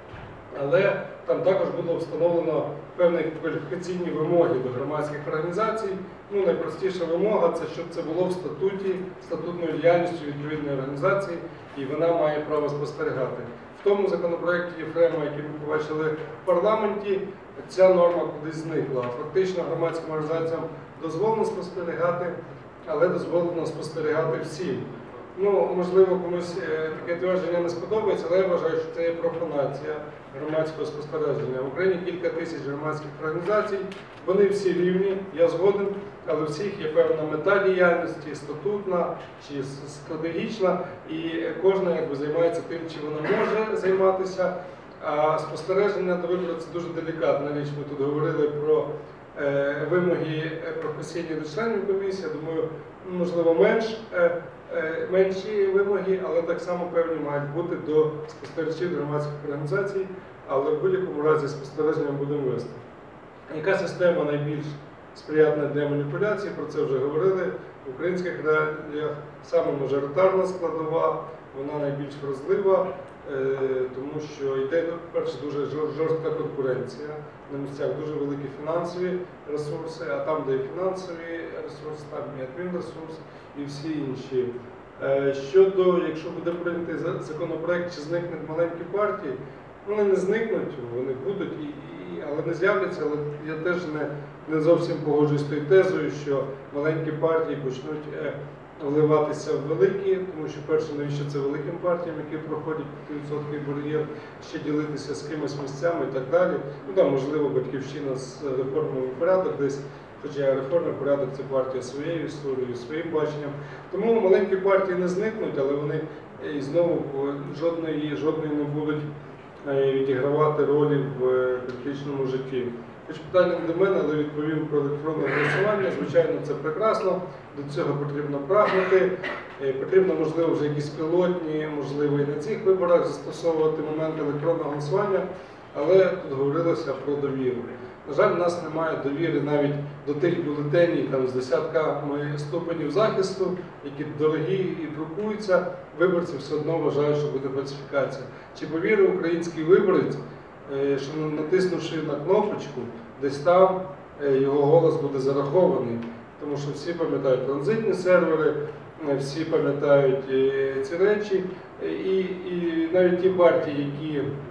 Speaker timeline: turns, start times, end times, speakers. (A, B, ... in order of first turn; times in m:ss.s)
0:00.5-0:22.4 A
0:22.9-0:24.8 A
0:25.4-1:02.8 A
1:03.5-1:59.1 A
1:59.6-2:44.3 A